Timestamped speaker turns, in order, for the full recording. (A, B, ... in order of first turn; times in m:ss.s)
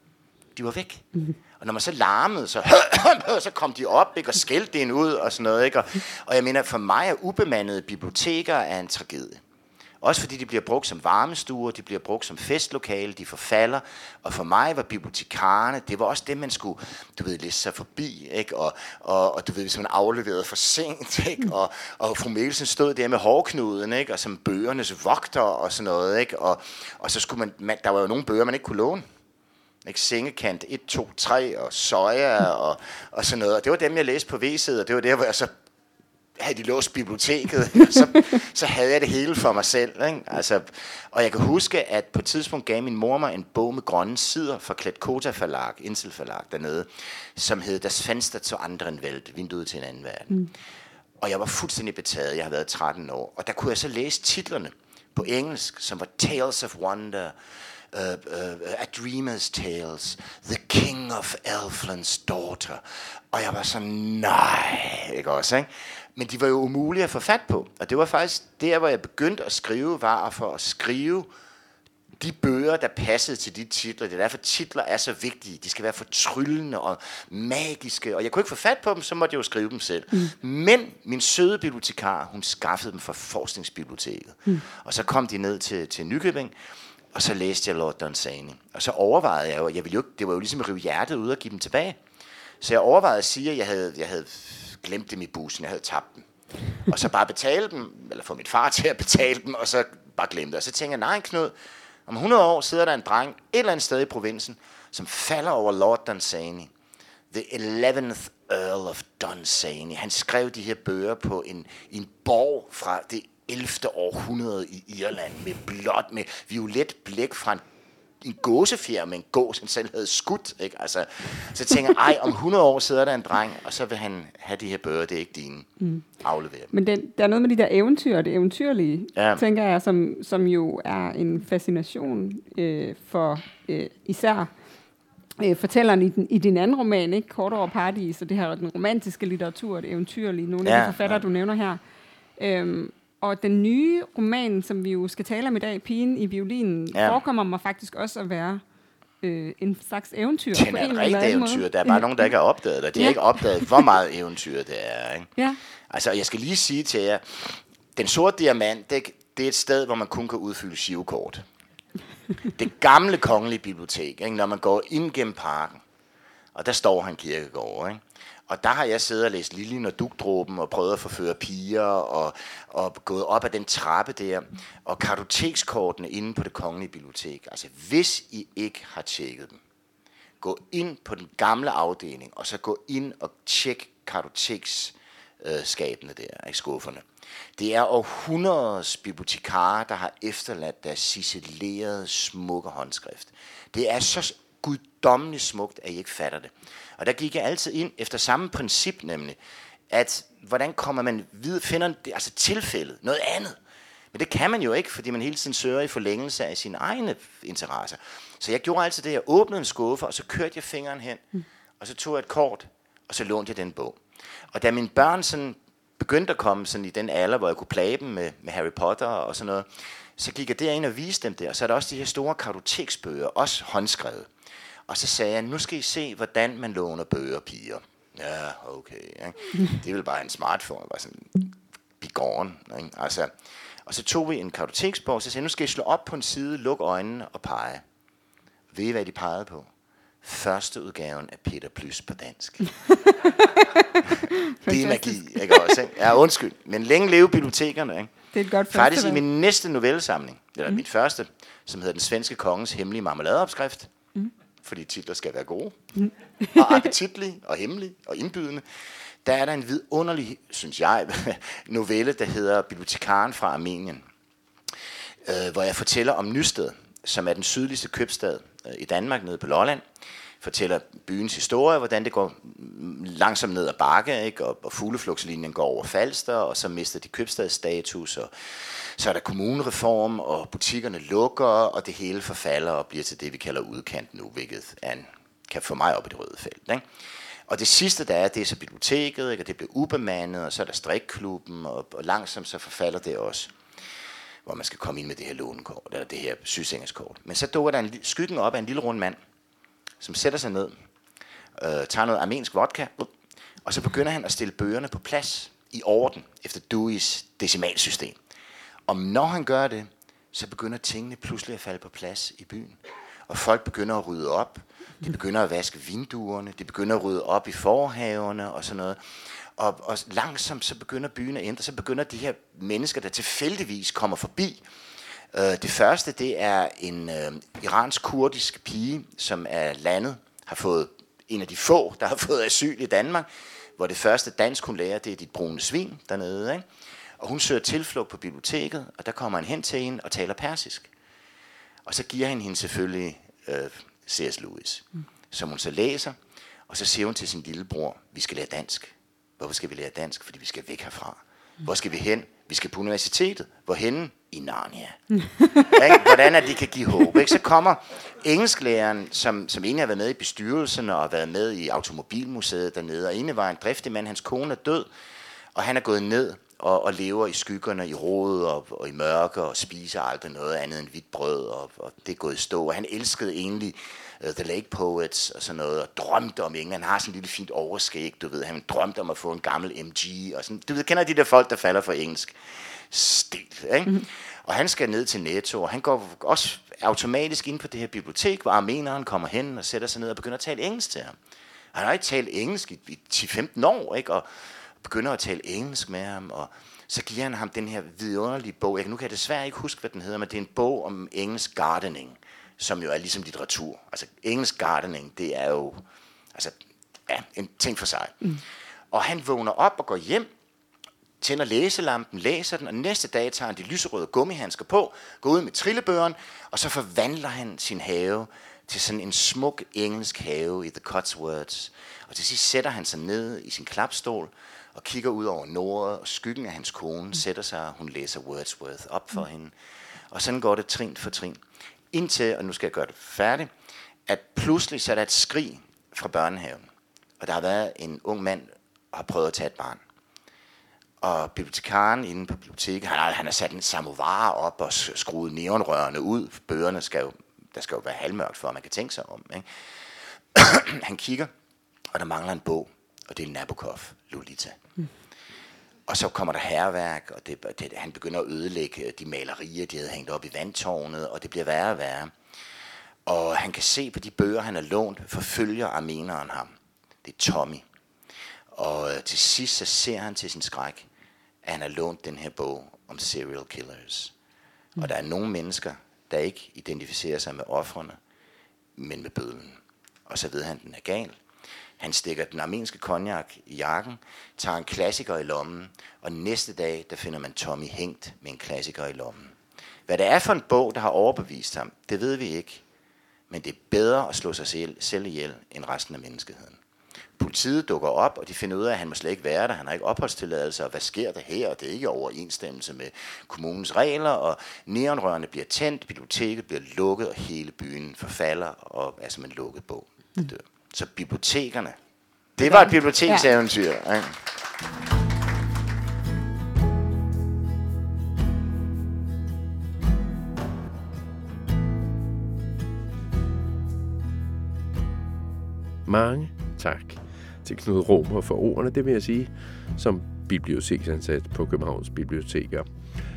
0:00.6-0:01.1 A
0:01.6-0:09.4 A
0:10.0-0:29.0 A
0:29.8-0:35.5 A
0:36.4-0:50.5 A
0:51.2-0:57.3 A
0:57.9-1:11.3 A
1:12.2-1:26.5 A
1:27.1-1:32.0 A
1:32.6-1:36.2 A
1:36.8-1:41.5 A
1:42.1-1:46.7 A
1:47.3-1:57.6 A
1:58.2-2:06.7 A
2:06.7-2:14.5 B
2:09.1-2:09.4 A
2:15.4-2:21.8 B
2:20.6-2:21.3 A
2:22.4-2:28.6 B
2:26.9-2:27.2 A
2:29.2-2:32.3 B
2:30.5-2:35.3 A
2:32.9-2:33.9 B
2:35.9-2:41.4 A
2:42.5-2:45.8 A
2:46.5-2:59.6 A
3:00.4-3:07.0 A
3:07.6-3:19.4 A
3:19.9-3:23.6 A
3:24.1-3:31.2 A
3:31.8-3:34.0 A
3:34.5-3:44.3 A
3:44.9-3:51.4 A
3:52.0-3:53.3 A
3:53.8-3:57.8 A
3:58.7-3:59.7 A
4:00.2-4:02.7 A
4:02.9-4:05.8 B
4:04.6-4:13.9 A
4:08.3-4:09.2 B
4:14.6-4:15.7 A
4:16.0-4:16.9 B
4:16.5-4:18.6 A
4:19.2-4:24.0 A
4:25.2-4:29.8 A
4:30.4-4:46.8 A
4:47.5-4:53.5 A
4:54.4-4:59.2 A
5:00.0-5:00.7 A
5:01.6-5:03.1 A
5:03.6-5:08.2 A
5:08.9-5:24.6 A
5:25.3-5:36.6 A
5:37.2-5:40.9 A
5:41.8-5:46.1 A
5:46.7-5:55.0 A
5:55.6-6:04.9 A
6:05.5-6:22.4 A
6:22.9-6:31.1 A
6:31.7-6:34.3 A
6:34.8-6:45.8 A
6:47.1-6:48.4 A
6:48.9-6:50.3 A
6:51.2-7:09.5 A
7:10.1-7:11.4 A
7:11.9-7:13.5 A
7:14.1-7:16.6 A
7:17.2-7:19.8 A
7:21.0-7:29.4 A
7:30.3-7:31.3 A
7:31.9-7:34.6 A
7:35.9-7:42.1 A
7:43.0-7:46.5 A
7:47.0-7:47.6 A
7:48.5-7:50.9 A
7:51.4-7:54.1 A
7:54.8-7:58.0 A
7:58.8-8:01.2 A
8:01.8-8:09.3 A
8:09.9-8:12.6 A
8:13.3-8:16.6 A
8:17.2-8:31.8 A
8:32.4-8:34.2 A
8:32.4-8:33.3 B
8:45.8-8:52.6 C